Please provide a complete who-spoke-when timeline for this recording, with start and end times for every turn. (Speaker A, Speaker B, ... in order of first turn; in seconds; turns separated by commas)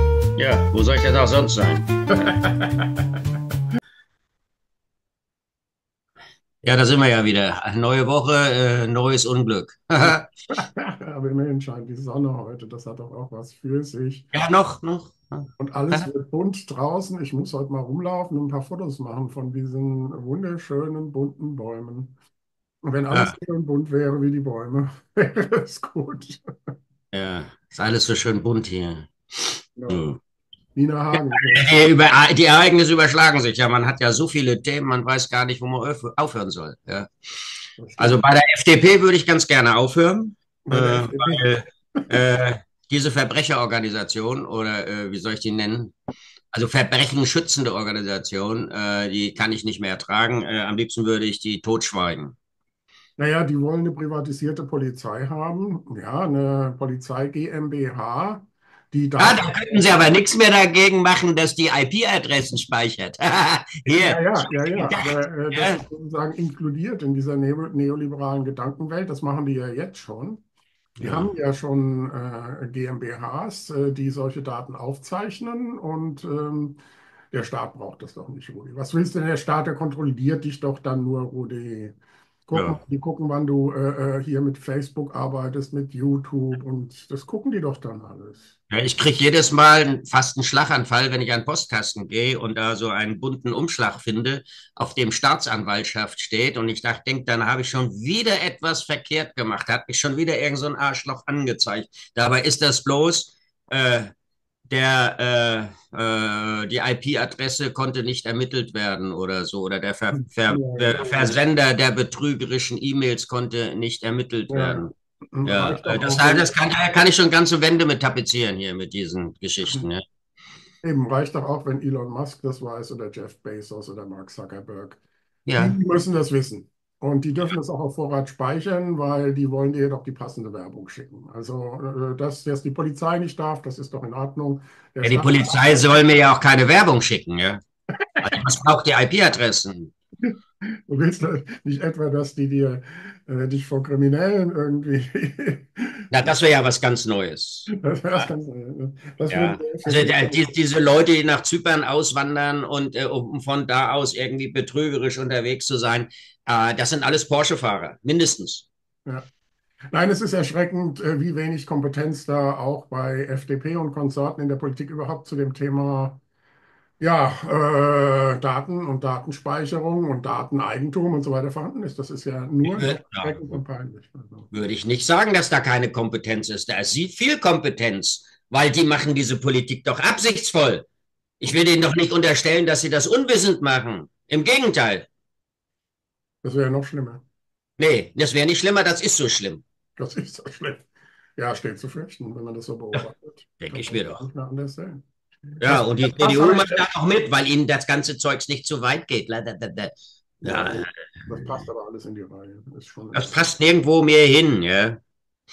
Speaker A: 0.4-1.9, Speaker B: 2.1-3.0, Speaker A: 6.6-10.3, Speaker B: 10.0-14.3, Speaker A: 14.3-16.1, Speaker B: 15.6-22.1, Speaker B: 22.8-26.4, Speaker A: 27.1-30.2, Speaker B: 29.8-30.0, Speaker B: 30.8-31.8, Speaker A: 31.1-37.1, Speaker B: 37.8-38.2, Speaker A: 38.0-45.9, Speaker B: 40.7-42.1, Speaker A: 46.5-52.3, Speaker B: 53.2-59.5, Speaker A: 59.2-65.8, Speaker B: 64.0-70.4, Speaker A: 71.0-71.3, Speaker B: 71.0-76.8, Speaker B: 77.3-88.6, Speaker A: 82.5-82.8, Speaker A: 88.7-104.1, Speaker A: 104.7-114.9, Speaker B: 110.1-111.3, Speaker B: 114.5-116.5, Speaker A: 115.5-120.0, Speaker B: 120.8-125.0, Speaker A: 125.5-125.8, Speaker B: 125.6-135.8, Speaker A: 135.0-137.6, Speaker A: 138.2-139.9, Speaker B: 140.2-146.1, Speaker A: 146.1-148.3, Speaker B: 147.7-150.4, Speaker A: 149.3-158.7, Speaker B: 159.9-166.2, Speaker B: 167.0-174.5, Speaker A: 172.6-173.6, Speaker A: 174.5-180.8, Speaker A: 181.4-185.1, Speaker B: 186.4-187.2, Speaker A: 187.8-189.6, Speaker B: 190.0-196.8, Speaker A: 193.6-194.2, Speaker A: 195.6-201.7, Speaker B: 200.4-203.4, Speaker A: 203.1-205.0